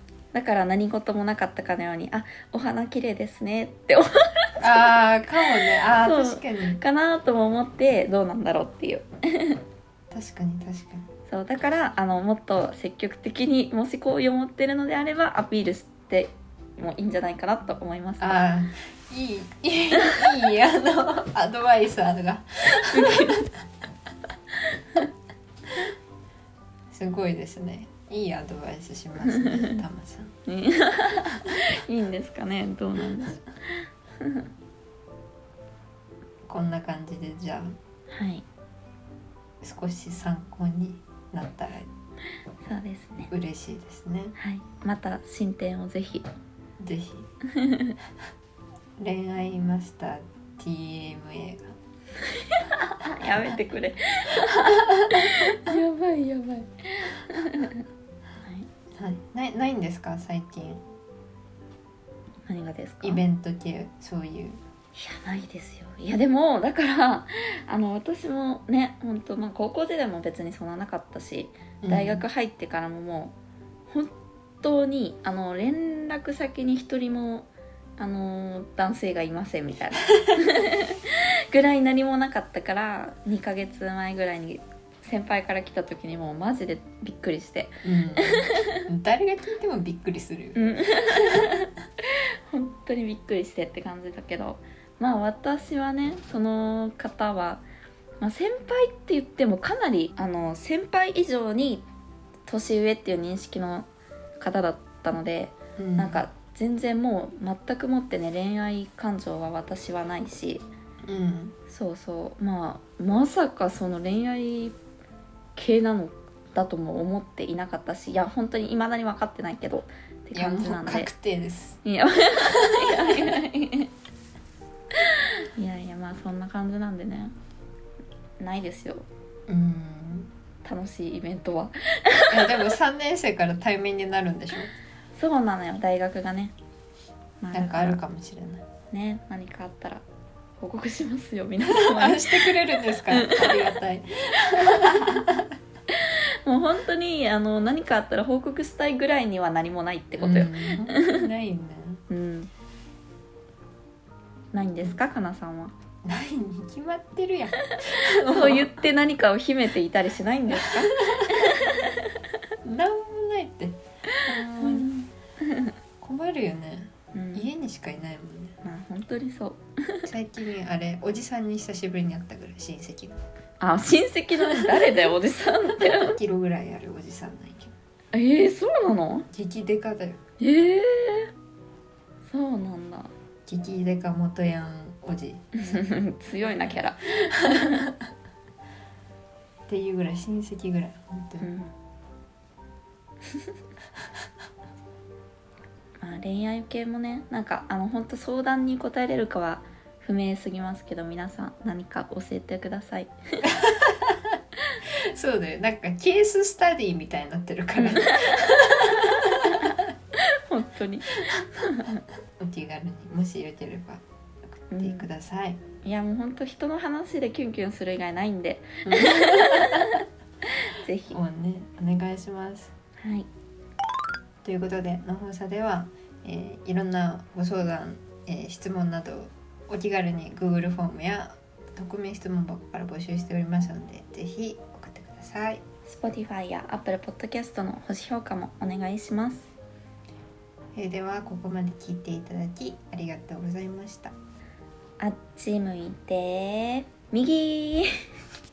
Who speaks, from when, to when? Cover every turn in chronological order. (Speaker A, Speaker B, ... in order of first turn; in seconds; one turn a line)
Speaker A: 0.3-9.6
Speaker B: 4.6-6.8
Speaker B: 10.1-11.1
Speaker A: 11.3-18.4
Speaker B: 18.2-23.6
Speaker A: 22.8-23.5
Speaker B: 26.9-30.3
Speaker A: 29.2-29.8
Speaker A: 30.5-33.4
Speaker A: 34.2-34.5
Speaker B: 36.5-37.8
Speaker A: 38.1-38.4
Speaker B: 39.6-41.9
Speaker A: 42.6-43.3
Speaker B: 43.3-44.3
Speaker A: 44.4-46.2
Speaker B: 46.8-47.3
Speaker A: 47.5-48.0
Speaker B: 49.0-51.8
Speaker A: 52.3-57.8
Speaker B: 54.5-55.7
Speaker A: 58.4-58.7
Speaker B: 58.9-60.8
Speaker A: 62.5-63.2
Speaker B: 63.0-64.6
Speaker A: 64.9-73.3
Speaker B: 71.8-72.2
Speaker A: 73.9-77.5
Speaker A: 78.0-88.8
Speaker B: 87.8-91.7
Speaker A: 90.5-97.6
Speaker A: 98.2-101.8
Speaker A: 102.5-103.9
Speaker A: 104.4-110.7
Speaker B: 105.8-106.2
Speaker B: 111.0-111.5
Speaker A: 111.7-114.7
Speaker A: 115.5-121.1
Speaker B: 120.3-121.8
Speaker A: 121.8-123.9
Speaker B: 122.4-123.3
Speaker A: 125.0-127.3
Speaker A: 128.4-129.1
Speaker B: 129.5-130.3
Speaker A: 130.6-132.7
Speaker B: 132.3-134.7
Speaker A: 135.2-136.5
Speaker A: 137.4-138.0
Speaker B: 137.5-138.6
Speaker A: 138.9-140.0
Speaker A: 140.6-142.5
Speaker B: 141.7-145.5
Speaker A: 143.1-143.7
Speaker A: 144.6-145.2
Speaker A: 145.9-151.2
Speaker B: 150.2-152.0
Speaker A: 152.1-152.5
Speaker A: 154.5-155.7
Speaker B: 156.0-158.8
Speaker A: 157.6-162.1
Speaker B: 160.7-161.6
Speaker B: 162.6-164.9
Speaker A: 164.1-165.7
Speaker B: 166.0-168.6
Speaker A: 167.1-167.5
Speaker A: 168.6-170.1
Speaker B: 170.0-173.2
Speaker A: 173.6-176.2
Speaker B: 174.5-174.9
Speaker B: 175.8-177.7
Speaker A: 178.1-179.3
Speaker B: 179.3-180.2
Speaker A: 180.4-181.3
Speaker A: 182.3-183.1
Speaker B: 183.5-185.8
Speaker A: 185.6-187.9
Speaker B: 186.4-187.9
Speaker B: 189.7-191.5
Speaker A: 191.4-191.7
Speaker A: 196.0-203.5
Speaker B: 203.5-204.3
Speaker B: 204.8-209.9
Speaker A: 207.8-212.0
Speaker B: 212.4-215.6
Speaker A: 214.7-215.1
Speaker A: 215.8-220.0
Speaker B: 218.8-220.0
Speaker A: 220.6-221.2
Speaker B: 221.1-222.7
Speaker A: 223.0-223.3
Speaker B: 224.4-235.6
Speaker A: 235.9-239.5
Speaker B: 240.7-244.1
Speaker A: 245.0-248.0